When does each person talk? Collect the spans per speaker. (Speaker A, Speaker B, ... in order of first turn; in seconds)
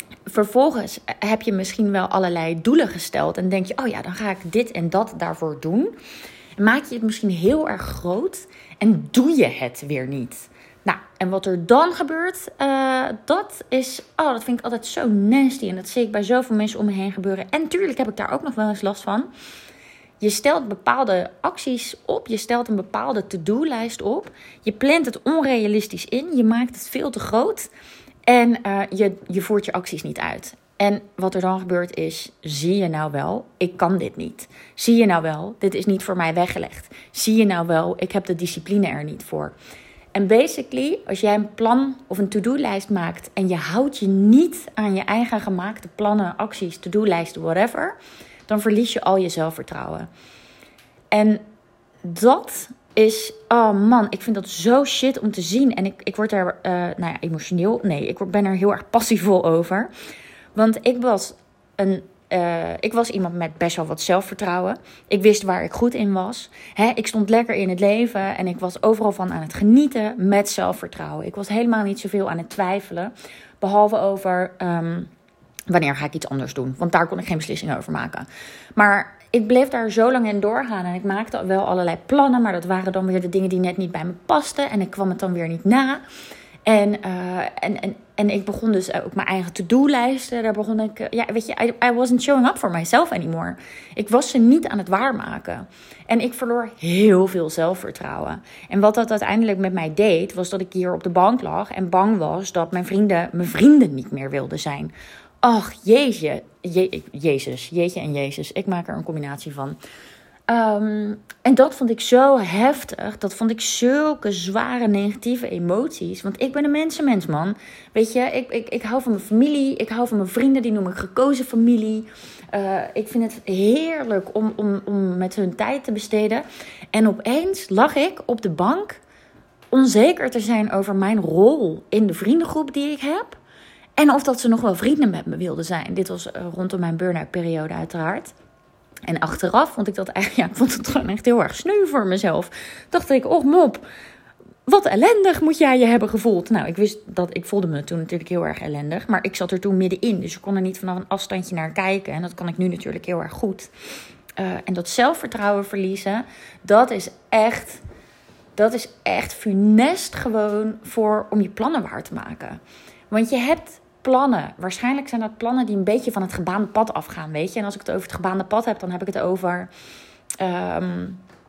Speaker A: 0.3-6.0, 6.6-19.3, 20.2-27.7, 28.3-39.5, 40.1-48.0, 48.5-50.1, 51.1-51.4, 52.0-59.9, 60.5-75.1, 75.7-86.0, 86.7-109.8, 110.5-129.0, 129.7-133.4, 134.0-138.3, 139.1-143.8, 144.7-153.7, 154.4-157.8, 158.6-169.7, 170.4-171.2